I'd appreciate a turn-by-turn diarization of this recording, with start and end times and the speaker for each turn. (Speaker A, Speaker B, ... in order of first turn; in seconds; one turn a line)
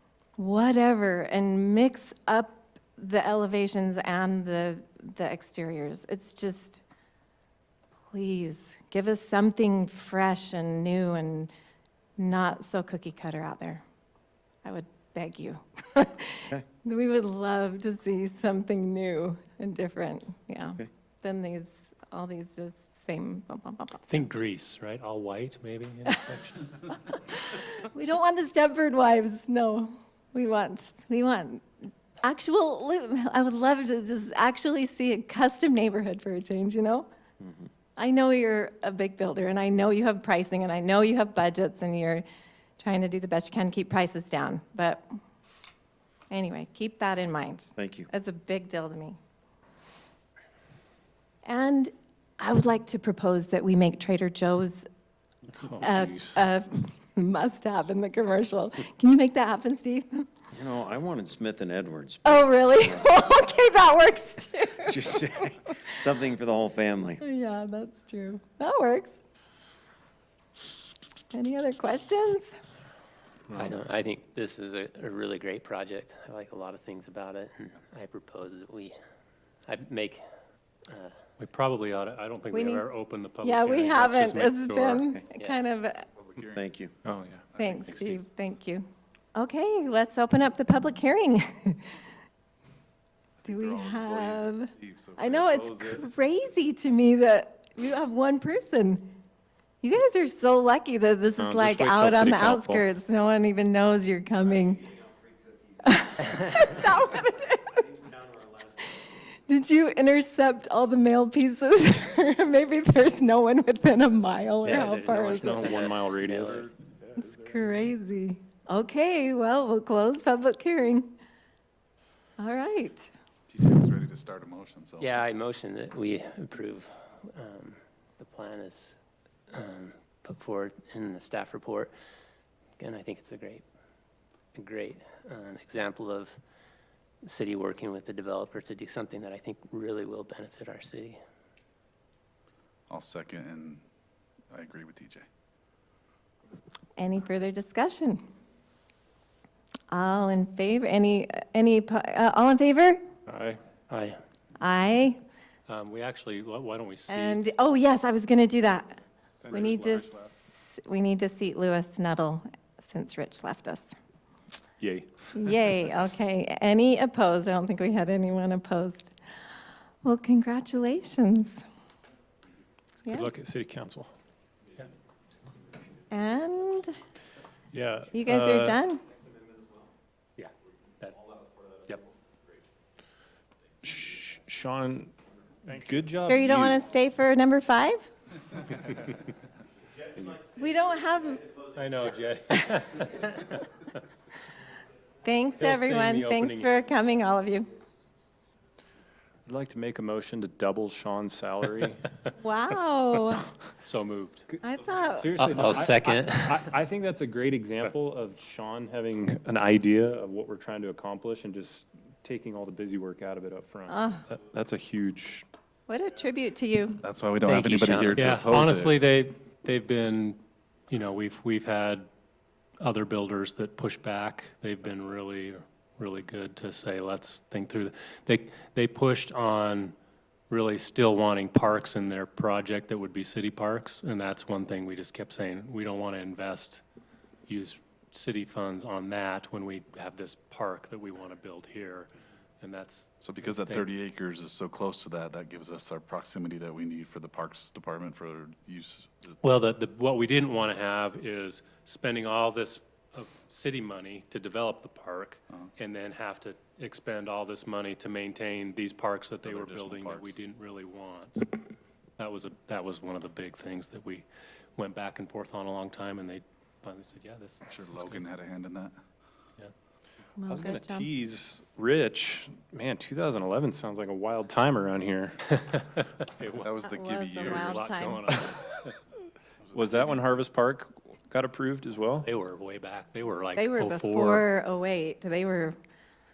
Speaker A: 0.4-6.8
Speaker A: 8.1-11.5
Speaker A: 12.2-13.8
Speaker A: 14.6-24.1
Speaker B: 24.1-26.7
Speaker A: 27.1-31.6
Speaker A: 32.2-37.1
Speaker C: 37.4-37.7
Speaker A: 38.0-42.2
Speaker A: 42.8-45.0
Speaker A: 46.3-49.2
Speaker C: 47.8-48.1
Speaker A: 51.5-54.9
Speaker B: 55.6-56.1
Speaker A: 55.8-60.3
Speaker C: 60.5-63.1
Speaker A: 62.2-65.2
Speaker C: 64.8-67.2
Speaker A: 67.2-69.2
Speaker A: 71.3-72.6
Speaker D: 73.5-79.0
Speaker D: 79.7-80.2
Speaker D: 80.9-81.2
Speaker B: 81.4-85.1
Speaker A: 82.5-82.8
Speaker A: 83.4-86.1
Speaker E: 86.0-86.7
Speaker C: 86.5-86.9
Speaker F: 87.1-87.4
Speaker E: 87.5-87.9
Speaker A: 87.6-92.0
Speaker B: 87.9-88.2
Speaker E: 93.4-96.1
Speaker A: 93.5-99.2
Speaker A: 99.8-104.8
Speaker F: 101.4-102.8
Speaker C: 105.0-105.7
Speaker A: 105.8-108.0
Speaker C: 106.6-107.0
Speaker C: 107.8-108.7
Speaker A: 109.0-115.9
Speaker D: 114.6-116.7
Speaker F: 114.7-117.8
Speaker A: 117.2-121.2
Speaker A: 122.4-123.1
Speaker E: 123.5-125.2
Speaker D: 125.0-129.0
Speaker D: 129.5-131.9
Speaker D: 132.8-133.7
Speaker D: 134.5-136.4
Speaker D: 137.2-141.2
Speaker E: 142.9-143.8
Speaker E: 144.5-145.2
Speaker A: 147.0-148.2
Speaker A: 149.9-153.0
Speaker D: 153.9-154.2
Speaker A: 154.6-155.2
Speaker B: 155.7-157.4
Speaker A: 157.1-163.9
Speaker F: 159.4-160.3
Speaker F: 164.8-165.2
Speaker A: 165.3-169.2
Speaker A: 170.0-171.6
Speaker A: 173.1-173.3
Speaker F: 173.1-174.1
Speaker A: 176.1-176.9
Speaker F: 177.7-178.8
Speaker A: 178.1-179.0
Speaker B: 180.4-181.2
Speaker F: 183.8-185.1
Speaker F: 185.7-186.8
Speaker A: 186.3-188.1
Speaker A: 190.5-191.5
Speaker B: 191.7-193.8
Speaker A: 195.2-197.7
Speaker B: 195.6-196.7
Speaker F: 199.5-202.0
Speaker A: 202.3-203.5
Speaker B: 203.8-204.5
Speaker A: 204.6-205.6
Speaker F: 205.2-215.5
Speaker D: 205.4-206.7
Speaker A: 213.9-214.2
Speaker A: 215.9-217.0
Speaker E: 217.0-219.0
Speaker D: 217.4-218.2
Speaker B: 218.2-220.4
Speaker B: 220.9-222.1
Speaker B: 222.8-229.9
Speaker B: 230.5-236.8
Speaker B: 237.5-242.1
Speaker B: 242.6-243.9
Speaker E: 243.2-249.4
Speaker B: 249.4-261.5
Speaker E: 259.4-260.4
Speaker B: 262.2-268.2
Speaker E: 267.7-268.9
Speaker A: 270.4-271.1
Speaker F: 270.5-275.4
Speaker B: 275.6-276.7
Speaker E: 276.5-278.1
Speaker A: 276.8-278.3
Speaker B: 277.3-278.9
Speaker E: 279.6-280.2
Speaker F: 279.8-282.3
Speaker B: 282.2-284.5
Speaker A: 283.6-285.8